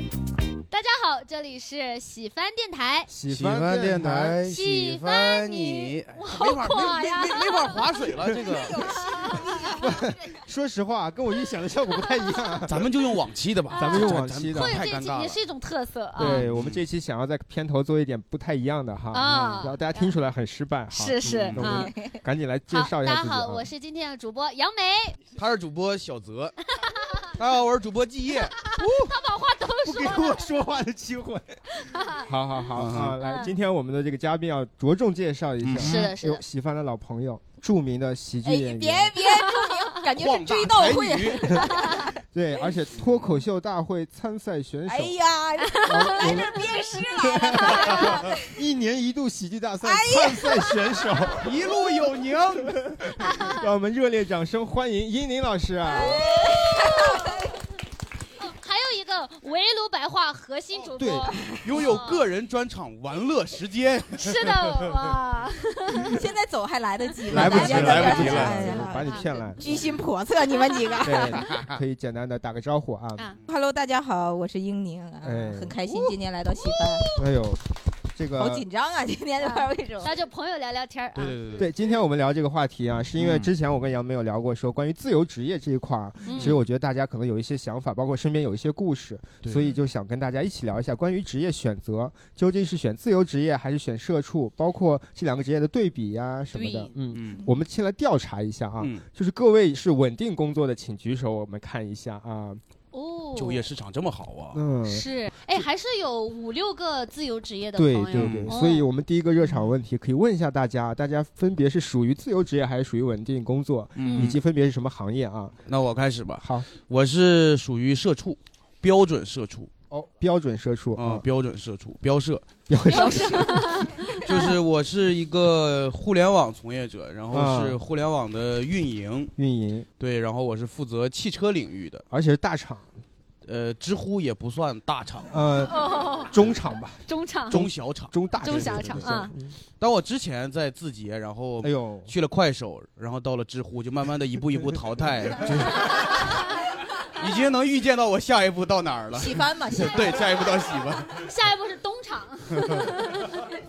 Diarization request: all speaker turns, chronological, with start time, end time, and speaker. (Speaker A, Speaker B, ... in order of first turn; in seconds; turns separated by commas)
Speaker A: 0.7-3.1, Speaker B: 3.1-4.7, Speaker C: 3.3-8.9, Speaker A: 4.3-9.8, Speaker D: 8.4-9.9, Speaker B: 9.8-12.9, Speaker C: 12.7-15.4, Speaker A: 13.7-16.4, Speaker B: 13.7-14.8, Speaker B: 16.2-23.7, Speaker C: 16.2-16.8, Speaker A: 19.1-20.1, Speaker A: 20.9-21.9, Speaker C: 21.3-21.7, Speaker D: 21.7-22.2, Speaker A: 22.7-25.2, Speaker C: 25.3-26.6, Speaker A: 26.8-27.2, Speaker C: 27.3-28.6, Speaker A: 28.6-30.5, Speaker B: 28.8-29.1, Speaker B: 29.8-31.6, Speaker A: 31.8-32.3, Speaker B: 32.2-39.2, Speaker C: 32.8-33.2, Speaker A: 33.2-33.5, Speaker C: 35.6-36.1, Speaker A: 35.8-36.4, Speaker D: 38.4-42.0, Speaker C: 40.1-41.6, Speaker B: 42.3-45.1, Speaker C: 43.0-43.3, Speaker D: 44.9-48.4, Speaker A: 45.7-48.3, Speaker B: 45.8-51.6, Speaker D: 49.8-50.8, Speaker C: 51.4-52.9, Speaker B: 53.2-56.2, Speaker A: 53.2-53.5, Speaker D: 55.9-57.3, Speaker A: 56.0-57.4, Speaker A: 58.4-62.2, Speaker B: 61.0-61.3, Speaker D: 61.5-61.8, Speaker C: 61.6-64.9, Speaker A: 64.2-66.2, Speaker D: 66.0-71.4, Speaker B: 67.3-69.9, Speaker C: 67.3-68.7, Speaker A: 67.8-69.6, Speaker A: 70.5-71.4, Speaker B: 71.0-73.3, Speaker D: 73.5-77.2, Speaker B: 75.2-76.1, Speaker A: 76.6-76.9, Speaker B: 77.2-78.7, Speaker D: 78.3-80.1, Speaker A: 79.4-81.7, Speaker C: 81.2-81.7, Speaker B: 81.6-102.6, Speaker C: 83.2-83.5, Speaker A: 86.2-86.6, Speaker A: 96.5-96.9, Speaker C: 97.1-97.4, Speaker A: 102.9-103.7, Speaker C: 103.3-104.6, Speaker B: 104.5-105.1, Speaker A: 104.8-108.9, Speaker B: 107.8-115.6, Speaker C: 108.1-108.5, Speaker C: 114.0-114.4, Speaker A: 114.0-114.3, Speaker C: 115.7-119.7, Speaker B: 116.4-116.7, Speaker B: 119.9-121.2, Speaker C: 121.0-122.4, Speaker B: 122.7-123.8, Speaker A: 122.8-124.6, Speaker C: 124.2-129.3, Speaker B: 127.3-127.8, Speaker B: 129.4-129.9, Speaker C: 130.0-132.1, Speaker B: 132.1-132.9, Speaker C: 133.4-135.4, Speaker B: 135.3-139.6, Speaker A: 135.7-136.3, Speaker A: 137.1-137.6, Speaker C: 137.5-139.2, Speaker A: 138.4-139.3, Speaker C: 139.8-146.2, Speaker B: 141.6-142.1, Speaker B: 145.4-145.8, Speaker C: 147.2-151.2, Speaker D: 149.1-150.2, Speaker A: 151.2-153.4